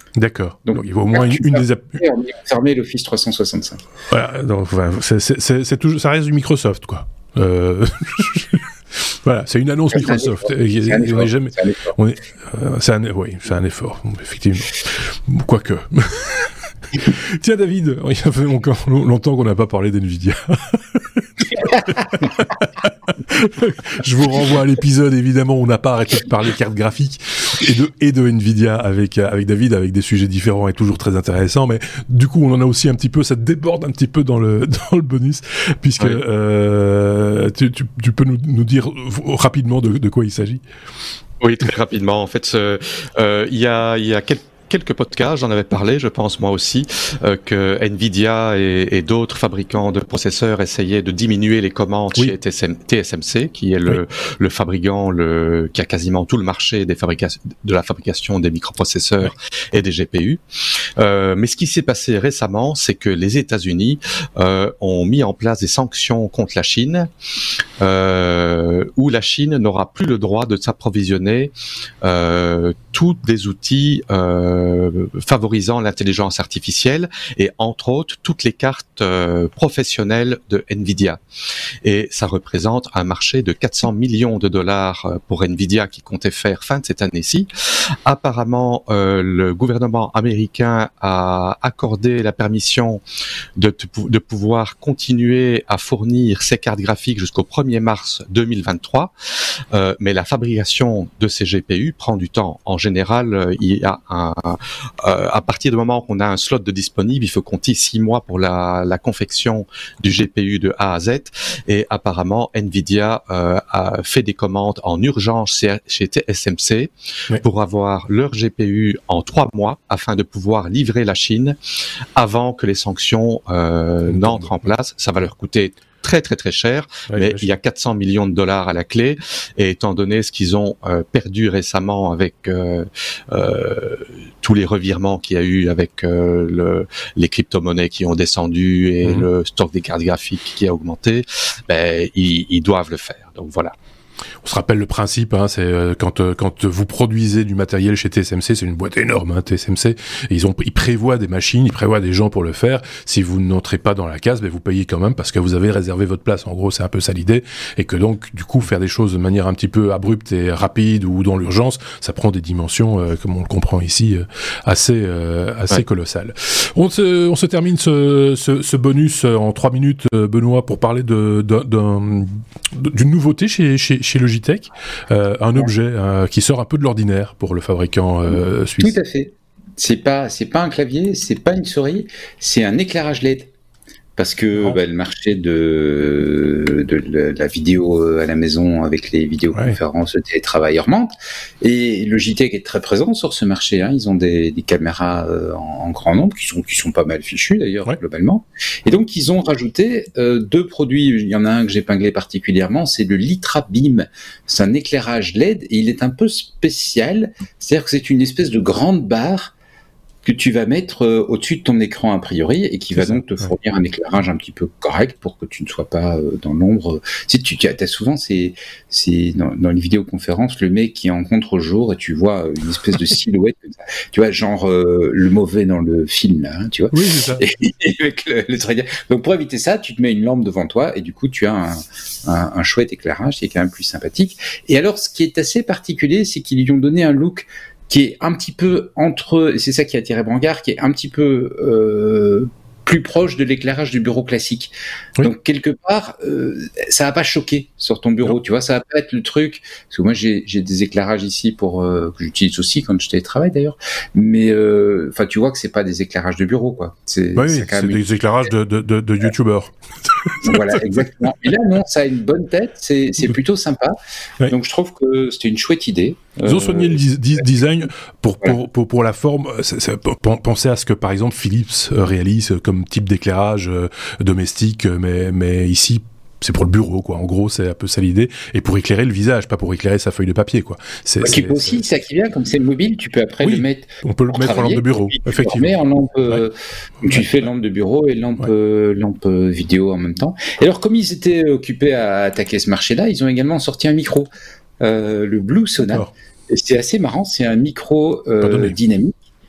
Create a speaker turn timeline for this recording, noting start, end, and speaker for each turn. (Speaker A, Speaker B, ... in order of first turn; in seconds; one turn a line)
Speaker A: 0.2-2.0
Speaker B: 0.7-3.8
Speaker A: 4.1-40.6
Speaker B: 9.9-11.9
Speaker C: 41.4-60.4
Speaker C: 61.0-67.1
Speaker C: 67.8-81.2
Speaker C: 81.8-87.5
Speaker C: 88.1-93.0
Speaker C: 93.6-99.1
Speaker C: 99.7-121.6
Speaker C: 122.2-143.7
Speaker A: 124.1-124.7
Speaker A: 127.1-127.5
Speaker A: 144.4-179.0
Speaker B: 178.3-183.5
Speaker B: 184.2-209.6
Speaker B: 210.2-258.0
Speaker A: 212.9-213.5
Speaker A: 226.9-227.4
Speaker A: 257.4-260.8
Speaker B: 260.4-263.9
Speaker B: 264.5-267.4
Speaker A: 266.4-281.9
Speaker B: 281.2-286.5
Speaker A: 283.4-285.8
Speaker B: 287.0-294.3
Speaker B: 294.8-299.2
Speaker A: 295.8-296.1
Speaker A: 298.4-298.8